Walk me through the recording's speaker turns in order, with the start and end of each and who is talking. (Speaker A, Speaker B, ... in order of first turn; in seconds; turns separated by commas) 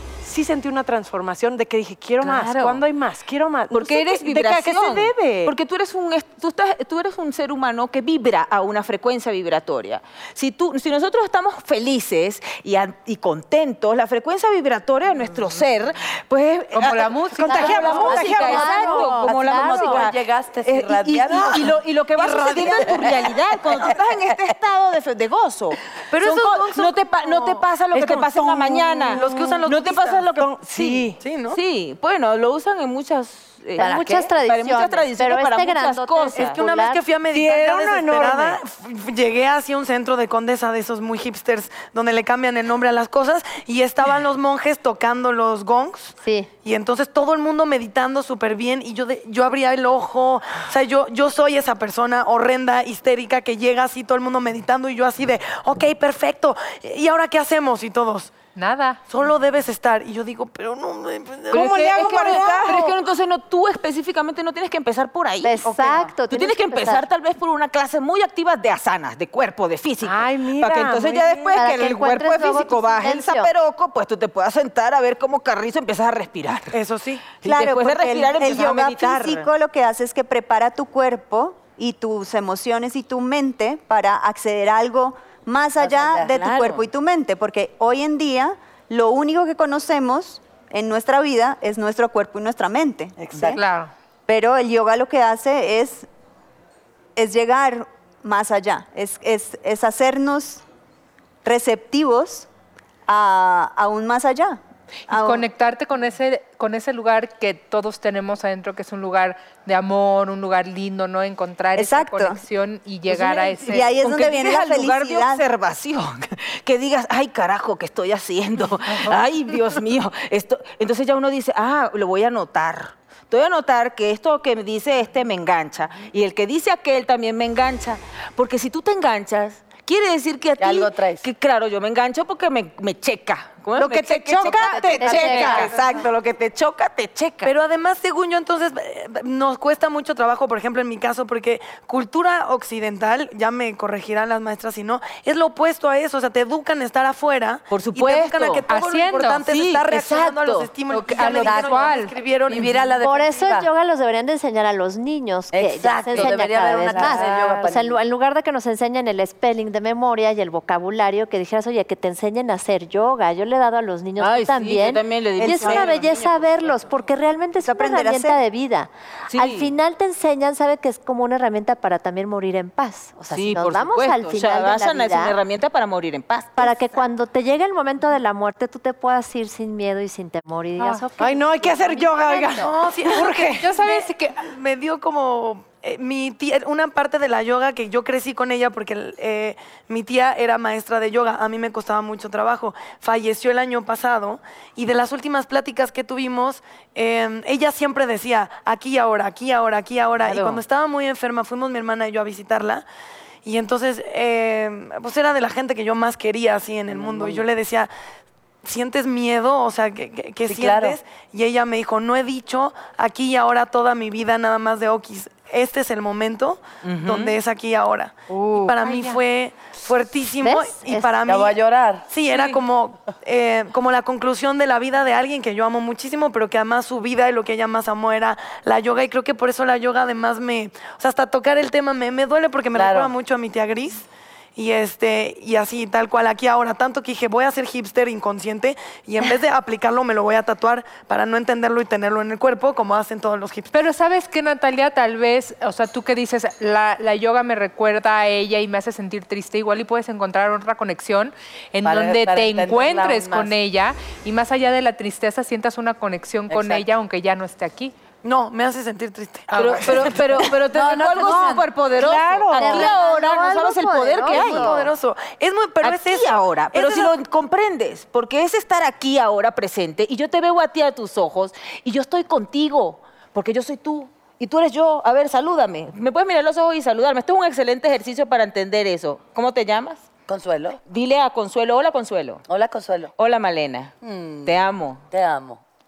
Speaker A: 0.2-5.5, Speaker B: 2.2-2.8, Speaker B: 3.7-36.6, Speaker C: 16.7-18.2, Speaker A: 17.4-19.3, Speaker D: 17.6-20.1, Speaker E: 19.3-23.9, Speaker F: 22.2-23.0, Speaker F: 26.1-27.6, Speaker A: 27.9-29.7, Speaker F: 29.1-30.2, Speaker A: 30.4-31.2, Speaker F: 31.2-31.6, Speaker D: 33.8-37.0, Speaker F: 36.4-58.3, Speaker A: 37.3-38.6, Speaker D: 46.2-46.5, Speaker C: 58.6-59.0, Speaker F: 59.1-62.4, Speaker A: 61.5-62.9, Speaker B: 61.5-65.7, Speaker D: 65.4-67.0, Speaker A: 65.7-66.1, Speaker B: 66.3-76.8, Speaker A: 70.0-71.6, Speaker D: 71.5-73.5, Speaker F: 76.7-77.3, Speaker B: 77.4-79.5, Speaker G: 77.4-93.6, Speaker E: 85.8-86.8, Speaker B: 86.3-86.8, Speaker E: 93.2-93.6, Speaker C: 93.5-93.9, Speaker G: 94.3-96.1, Speaker G: 97.2-100.6, Speaker G: 101.4-102.5, Speaker G: 103.1-104.6, Speaker G: 105.1-105.5, Speaker C: 105.1-113.9, Speaker G: 111.8-112.4, Speaker G: 113.1-115.4, Speaker B: 113.3-137.5, Speaker E: 130.6-131.2, Speaker A: 133.8-135.7, Speaker D: 134.9-135.7, Speaker C: 135.2-135.6, Speaker F: 137.4-152.9, Speaker B: 147.7-148.7, Speaker C: 148.7-149.4, Speaker B: 149.5-150.7, Speaker C: 150.9-152.1, Speaker E: 151.4-151.7, Speaker E: 152.5-153.7, Speaker D: 153.0-175.3, Speaker E: 155.5-158.0, Speaker B: 157.1-157.4, Speaker B: 164.2-166.8, Speaker G: 167.6-168.4, Speaker B: 169.3-169.7, Speaker B: 173.3-176.8, Speaker D: 176.6-182.7, Speaker C: 180.8-181.1, Speaker A: 181.2-183.7, Speaker F: 182.6-202.8, Speaker C: 183.6-184.4, Speaker E: 200.2-200.6, Speaker F: 203.4-207.9, Speaker E: 206.9-207.4, Speaker F: 208.6-221.6, Speaker E: 210.5-211.0, Speaker B: 216.8-217.4, Speaker A: 218.3-218.7, Speaker C: 218.8-219.2, Speaker D: 220.4-221.1, Speaker E: 221.2-222.1, Speaker F: 222.1-243.7, Speaker E: 232.7-233.1, Speaker C: 243.7-257.9, Speaker E: 251.8-253.5, Speaker E: 256.5-256.8, Speaker F: 258.2-260.5, Speaker C: 259.5-259.9, Speaker B: 259.6-264.9, Speaker A: 260.7-262.9, Speaker D: 262.6-264.9, Speaker F: 264.3-267.1, Speaker B: 265.8-280.1, Speaker E: 280.3-280.8, Speaker B: 280.9-282.4, Speaker E: 282.5-283.1, Speaker B: 283.2-283.9, Speaker E: 284.0-285.6, Speaker B: 284.4-285.0